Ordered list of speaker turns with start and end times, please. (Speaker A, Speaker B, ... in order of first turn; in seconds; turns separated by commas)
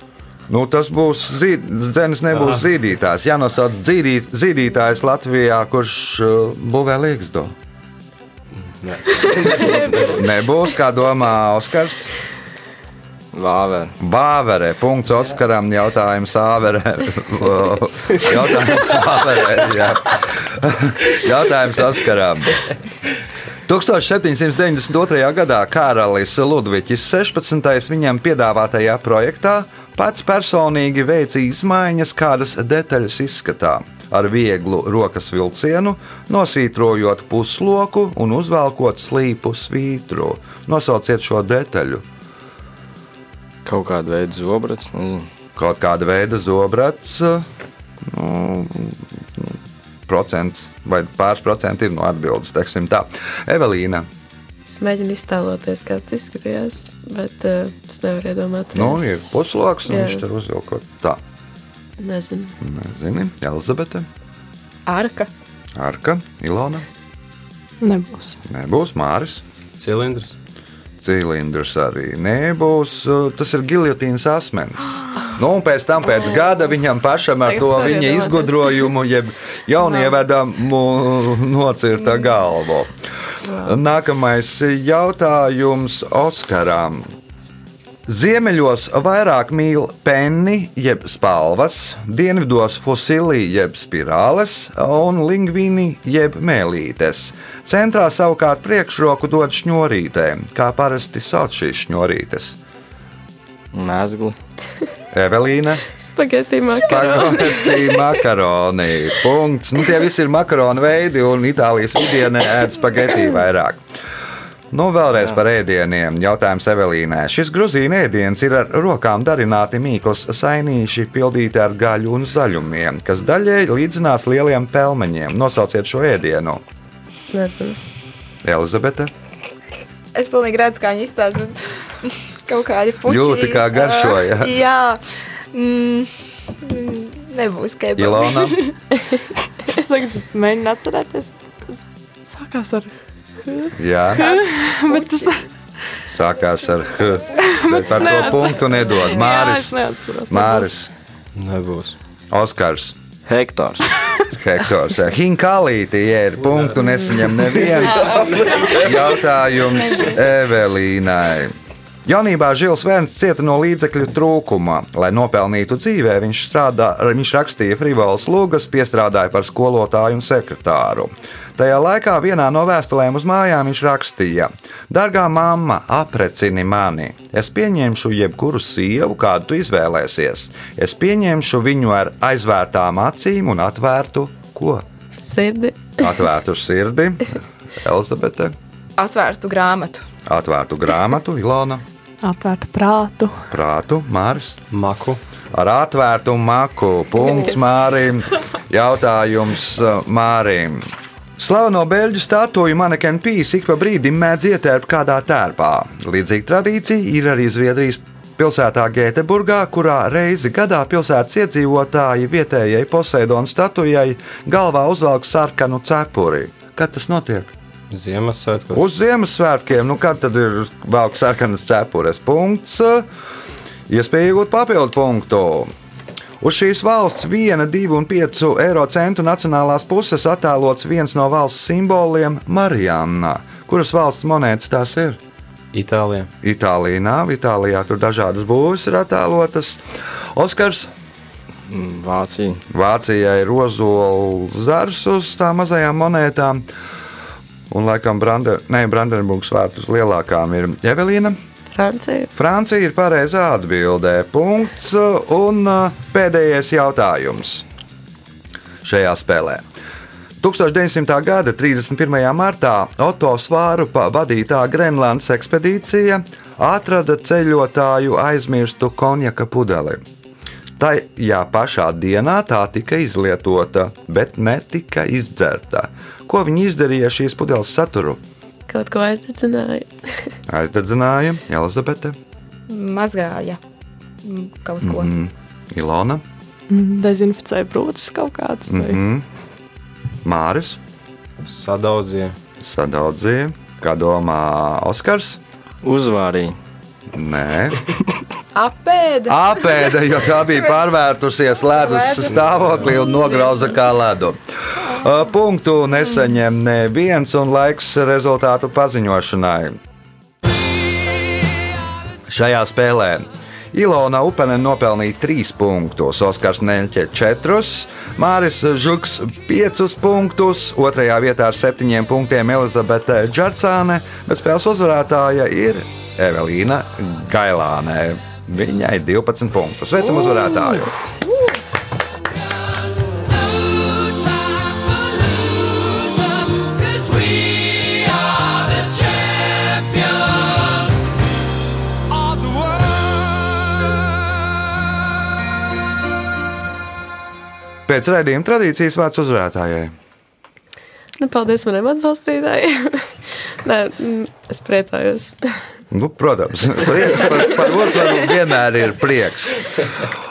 Speaker A: 0.5-7.5, Speaker B: 2.3-2.6, Speaker B: 8.7-10.2, Speaker A: 10.1-12.1, Speaker C: 13.3-14.0, Speaker A: 14.0-22.6, Speaker A: 23.7-42.0, Speaker C: 43.6-45.3, Speaker A: 45.6-47.5, Speaker A: 48.0-49.6, Speaker A: 50.1-54.1, Speaker D: 54.7-60.2, Speaker A: 58.7-61.2, Speaker D: 62.0-62.5, Speaker A: 62.6-64.1, Speaker E: 64.9-65.3, Speaker A: 65.8-66.9, Speaker F: 67.8-68.4, Speaker A: 68.5-69.4, Speaker B: 69.8-70.3, Speaker A: 71.0-82.9, Speaker D: 77.5-78.9, Speaker D: 83.5-83.7, Speaker A: 83.6-87.1, Speaker A: 88.1-102.6, Speaker C: 103.7-104.3, Speaker A: 105.1-105.9, Speaker D: 106.0-108.0, Speaker A: 106.7-113.8, Speaker A: 114.7-126.6, Speaker D: 127.3-127.8, Speaker A: 128.4-129.1, Speaker E: 130.2-135.0, Speaker A: 133.0-134.6, Speaker E: 135.5-138.8, Speaker A: 138.0-138.6, Speaker F: 139.7-142.9, Speaker F: 143.7-145.5, Speaker A: 143.8-144.2, Speaker E: 144.2-145.4, Speaker A: 146.1-149.8, Speaker F: 147.3-150.8, Speaker A: 150.3-150.9, Speaker B: 151.3-152.0, Speaker A: 152.3-153.0, Speaker C: 153.3-153.9, Speaker A: 154.3-184.8, Speaker B: 157.7-158.3, Speaker D: 185.2-186.0, Speaker A: 186.0-188.6, Speaker E: 189.0-190.1, Speaker A: 190.3-191.8, Speaker F: 192.2-193.5, Speaker A: 193.5-194.6, Speaker B: 194.7-195.2, Speaker A: 195.5-200.9, Speaker A: 201.4-217.5, Speaker B: 217.9-218.9, Speaker A: 218.7-223.1, Speaker A: 223.9-225.7, Speaker A: 226.4-235.2, Speaker B: 235.7-236.3, Speaker A: 236.4-239.8, Speaker A: 240.3-240.9, Speaker C: 241.7-242.6, Speaker A: 242.7-246.6, Speaker A: 247.7-251.4, Speaker D: 251.7-252.3, Speaker A: 252.3-257.7, Speaker A: 258.8-259.6, Speaker A: 260.4-270.0, Speaker A: 270.8-278.2, Speaker D: 278.7-280.4, Speaker A: 280.5-282.2, Speaker E: 282.7-283.6, Speaker E: 284.2-285.1, Speaker A: 284.8-286.2, Speaker F: 286.7-289.0, Speaker A: 288.7-289.3, Speaker A: 290.2-290.8, Speaker B: 291.5-292.4, Speaker A: 292.6-295.4, Speaker C: 295.8-296.6, Speaker A: 297.1-297.8, Speaker E: 298.6-299.4, Speaker A: 299.3-309.8, Speaker E: 301.8-302.3, Speaker A: 312.3-330.9, Speaker A: 347.9-349.9, Speaker D: 351.2-355.5, Speaker A: 355.9-360.1